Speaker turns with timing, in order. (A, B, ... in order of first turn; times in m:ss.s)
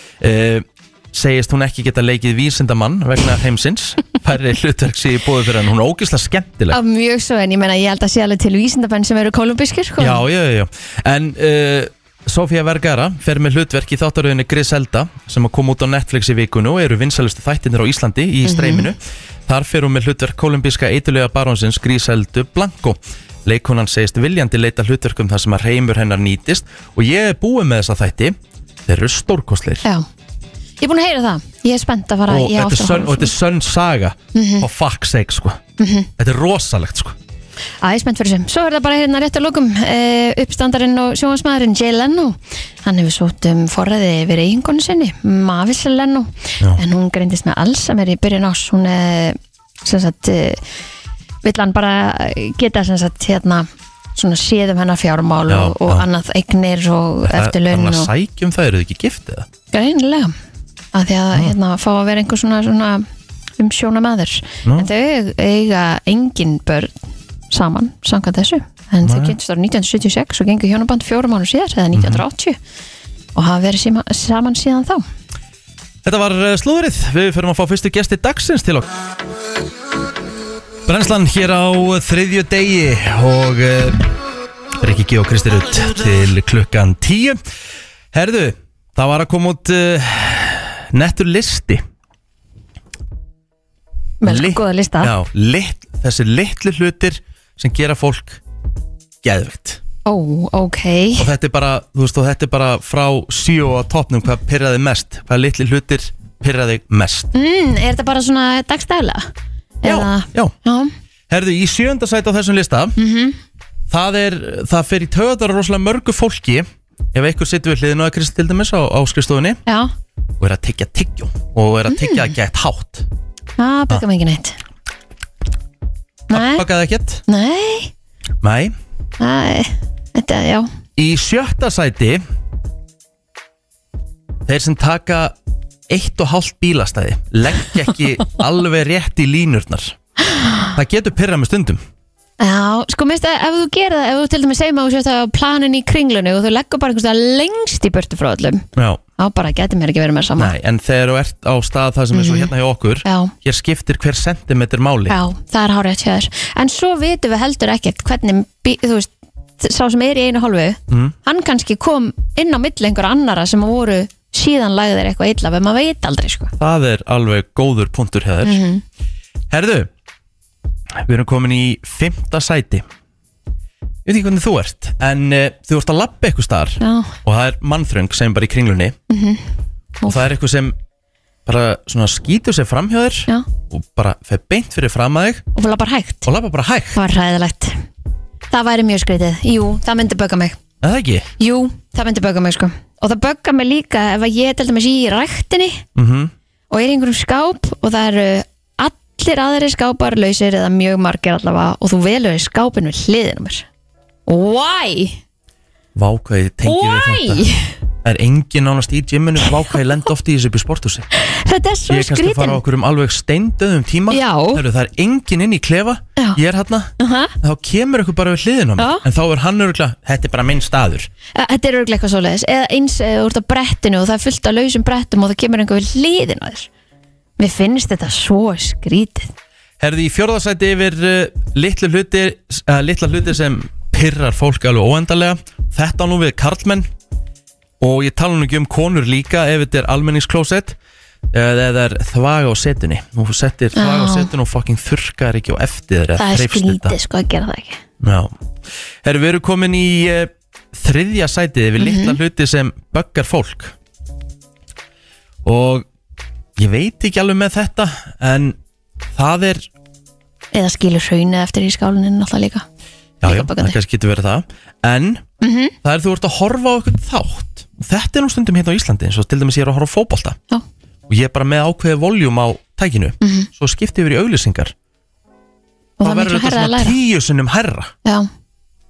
0:00.2-0:06.8 A
0:06.7-0:10.2 B
0:10.0-0:29.8 A
0:18.4-0:18.9 B
0:30.8-0:33.3 B
0:32.3-0:35.6 A
0:34.3-0:34.7 B
0:35.8-0:36.1 B
0:36.2-0:37.2 A
0:37.8-0:50.6 B
0:51.4-0:58.1 B
0:55.5-0:56.1 A
0:57.2-0:59.5 A
0:59.7-1:00.3 B
1:00.9-1:03.0 B
1:03.6-1:06.9 B
1:07.5-1:12.6 B
1:09.0-1:09.4 A
1:11.9-1:12.2 A
1:13.4-1:15.0 B
1:16.0-1:18.9 A
1:20.9-1:24.1 A
1:24.8-1:27.4 A
1:28.1-1:31.8 A
1:34.2-1:35.1 B
1:34.2-1:38.4 A
1:39.2-1:39.8 A
1:40.1-1:41.3 B
1:41.2-1:47.3 A
1:47.3-1:49.3 B
1:49.8-1:50.9 B
1:49.8-1:50.5 A
1:51.3-1:53.0 A
1:53.0-1:53.4 B
1:53.9-1:59.6 A
2:00.4-2:03.1 A
2:01.9-2:02.3 B
2:03.6-2:04.6 B
2:06.3-2:06.7 B
2:06.3-2:07.2 A
2:07.3-2:07.9 B
2:08.4-2:08.8 A
2:09.2-2:10.7 B
2:11.0-2:12.2 A
2:14.5-2:15.4 A
2:15.9-2:20.0 A
2:20.3-2:20.6 B
2:20.7-2:21.8 A
2:22.4-2:28.6 B
2:28.8-2:29.0 A
2:29.2-2:30.5 B
2:30.4-2:35.2 A
2:32.1-2:32.5 B
2:33.0-2:33.3 B
2:35.1-2:46.5 B
2:40.9-2:41.2 A
2:46.6-2:48.6 A
2:48.4-2:48.8 B
2:49.5-2:49.9 A
2:51.0-2:52.8 A
2:54.1-2:59.0 A
2:56.8-2:57.2 B
2:59.1-2:59.4 B
3:00.1-3:00.8 A
3:01.5-3:05.5 A
3:05.6-3:06.3 B
3:06.2-3:07.0 A
3:06.9-3:07.8 B
3:08.5-3:10.6 B
3:10.8-3:11.3 A
3:11.4-3:15.8 B
3:16.0-3:16.3 A
3:16.7-3:23.7 B
3:24.3-3:25.2 B
3:26.0-3:27.4 A
3:26.6-3:27.7 B
3:28.0-3:31.1 A
3:31.1-3:32.6 B
3:31.9-3:41.1 A
3:34.1-3:34.6 B
3:37.0-3:37.3 B
3:38.8-3:39.0 B
3:41.4-3:46.7 B
3:47.4-3:49.3 B
3:49.8-3:56.9 A
3:57.8-4:00.8 A
4:01.3-4:07.0 A
4:03.8-4:04.3 B
4:06.2-4:07.8 B
4:08.0-4:08.4 A
4:09.0-4:13.7 A
4:11.8-4:12.2 B
4:15.4-4:15.9 A
4:16.6-4:18.6 A
4:19.2-4:19.7 A
4:20.5-4:22.6 B
4:23.2-4:25.2 A
4:23.2-4:23.8 B
4:25.4-4:25.7 B
4:25.8-4:30.4 A
4:31.1-4:34.7 A
4:33.2-4:33.5 B
4:36.0-4:37.0 B
4:36.0-4:37.9 A